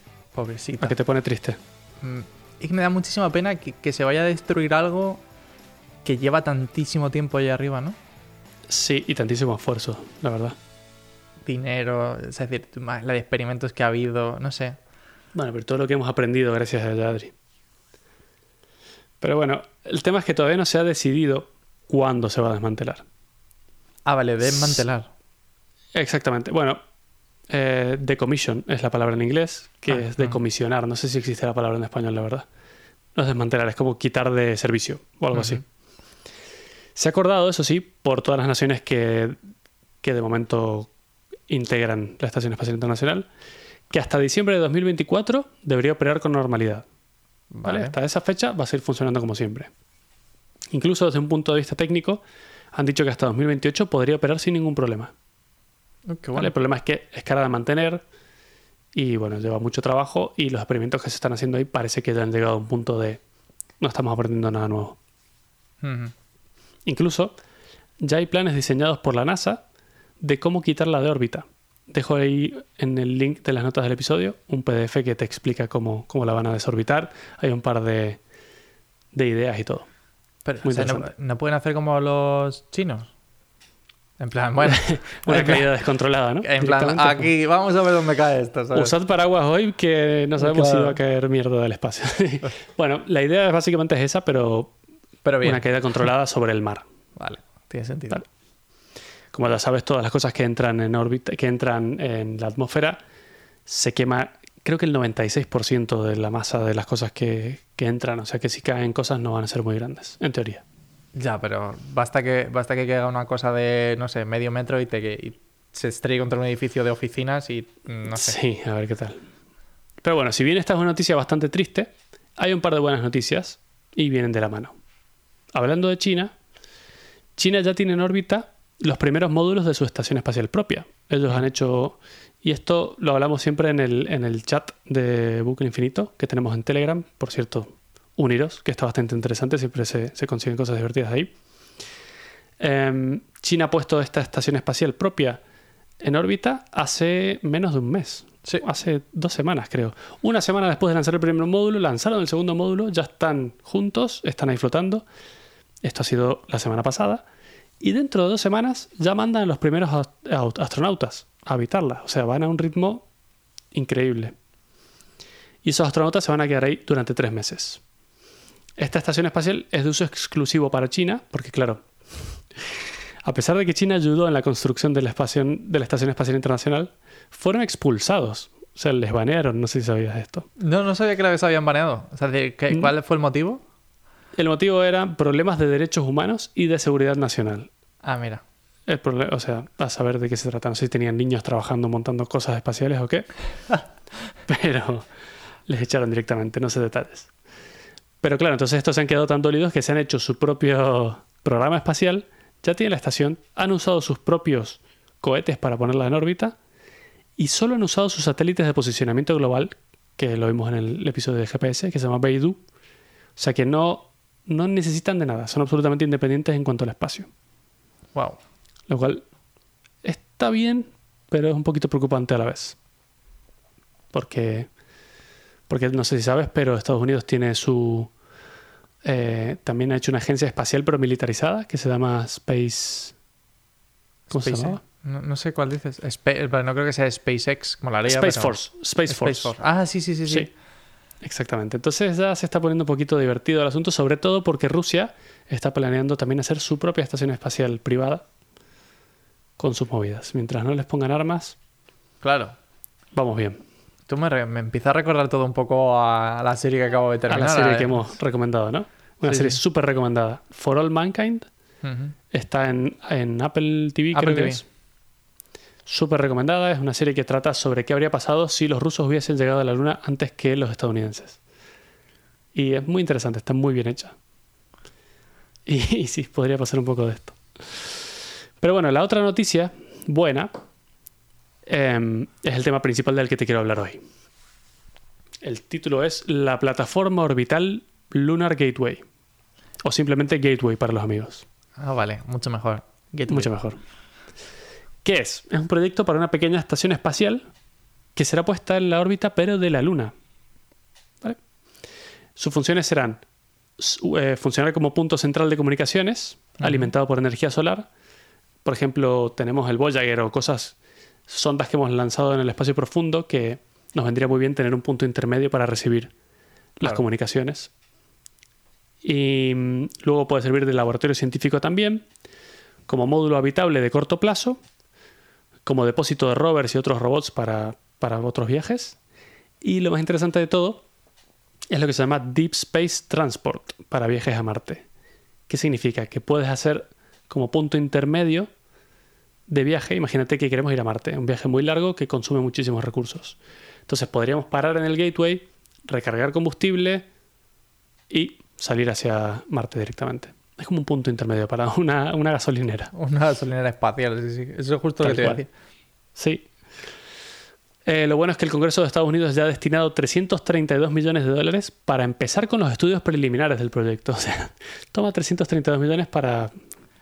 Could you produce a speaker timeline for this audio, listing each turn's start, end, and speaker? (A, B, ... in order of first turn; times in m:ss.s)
0:00.4-0:01.0 A
0:00.8-0:01.6 B
0:02.0-0:05.2 A
0:06.0-0:08.0 A
0:08.7-0:10.6 B
0:11.4-0:14.8 A
0:15.3-0:17.4 B
0:19.2-0:23.0 B
0:24.1-0:25.1 A
0:24.5-0:24.8 B
0:25.9-0:26.8 B
0:27.5-0:32.5 B
0:29.9-0:30.4 A
0:33.2-0:35.6 B
0:35.3-0:35.6 A
0:37.0-0:39.4 B
0:40.0-0:40.9 B
0:41.5-0:43.3 B
0:43.9-0:46.9 B
0:47.5-0:47.9 A
0:47.6-0:49.7 B
0:50.7-0:55.1 B
0:56.1-0:56.5 A
0:56.4-0:58.0 B
0:58.9-1:03.2 B
1:03.8-1:05.0 B
1:05.8-1:06.1 A
1:06.8-1:07.4 B
1:08.0-1:09.6 B
1:10.2-1:18.2 B
1:19.1-1:19.9 B
1:20.5-1:23.1 A
1:20.6-1:21.1 B
1:24.2-1:25.7 A
1:24.7-1:27.3 B
1:26.4-1:28.9 A
1:28.7-1:34.7 B
1:30.4-1:31.0 A
1:35.2-1:35.7 A
1:35.4-1:36.8 B
1:37.2-1:38.2 A
1:39.3-1:43.0 B
1:43.7-1:50.6 B
1:51.2-1:58.4 A
1:58.1-1:59.2 B
2:00.0-2:04.8 B
2:05.5-2:06.3 B
2:07.4-2:21.3 B
2:22.6-2:25.4 B
2:26.0-2:35.0 B
2:35.8-2:37.2 B
2:37.8-2:43.1 B
2:43.7-2:44.4 B
2:45.6-2:47.8 B
2:48.8-3:00.5 B
3:00.6-3:03.6 A
3:04.3-3:07.7 B
3:08.0-3:08.4 A
3:08.9-3:13.3 B
3:14.5-3:15.1 B
3:15.7-3:17.3 B
3:18.2-3:26.6 B
3:27.4-3:32.6 B
3:33.4-3:37.3 B
3:38.9-3:39.2 B
3:40.0-3:42.8 B
3:44.1-3:44.7 B
3:45.7-3:48.1 B
3:49.0-3:53.2 B
3:54.3-3:54.8 B
3:54.3-4:00.5 A
3:58.1-3:59.5 B
4:01.2-4:08.2 B
4:09.6-4:11.6 B
4:12.2-4:12.6 A
4:13.1-4:13.6 B
4:14.1-4:18.1 A
4:17.3-4:21.5 B
4:19.3-4:19.6 A
4:21.8-4:22.2 A
4:22.3-4:24.6 B
4:24.1-4:24.6 A
4:25.9-4:31.4 B
4:32.5-4:34.2 B
4:35.7-4:38.1 B
4:38.6-4:40.5 B
4:41.7-4:44.0 B
4:45.4-4:49.0 B
4:49.8-4:51.5 B
4:51.8-4:53.5 A
4:53.3-4:53.8 B
4:55.0-4:57.5 B
4:58.2-5:00.1 B
5:02.4-5:03.2 B
5:03.8-5:07.9 B
5:06.6-5:06.9 A
5:08.6-5:10.8 B
5:11.3-5:16.1 B
5:16.8-5:17.7 B
5:19.0-5:22.0 B
5:22.9-5:24.6 B
5:25.6-5:29.0 B
5:29.6-5:30.8 B
5:31.7-5:34.8 B
5:35.5-5:38.5 B
5:39.5-5:47.1 B
5:48.1-5:52.9 B
5:52.9-5:55.5 A
5:55.0-5:55.4 B
5:56.2-5:56.5 B
5:57.8-6:06.5 B